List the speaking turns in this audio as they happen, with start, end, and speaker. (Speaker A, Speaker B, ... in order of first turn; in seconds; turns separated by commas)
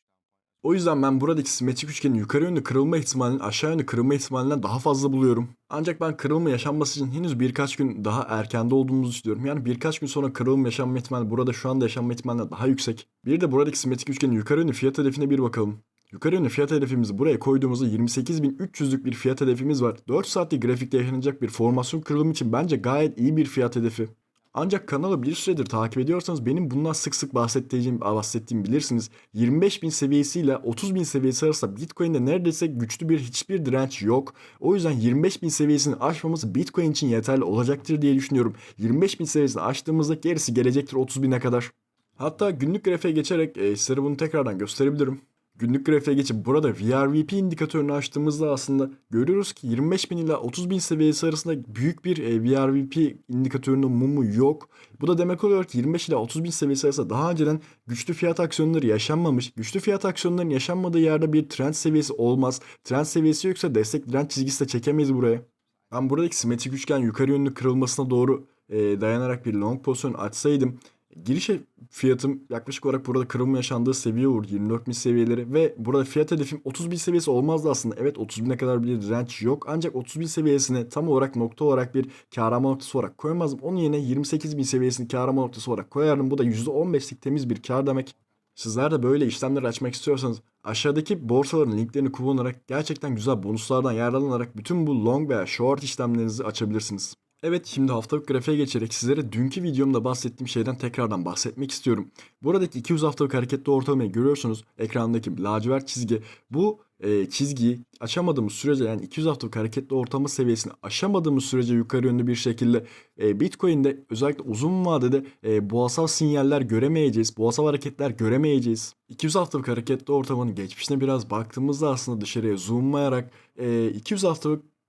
Speaker A: 0.6-124.7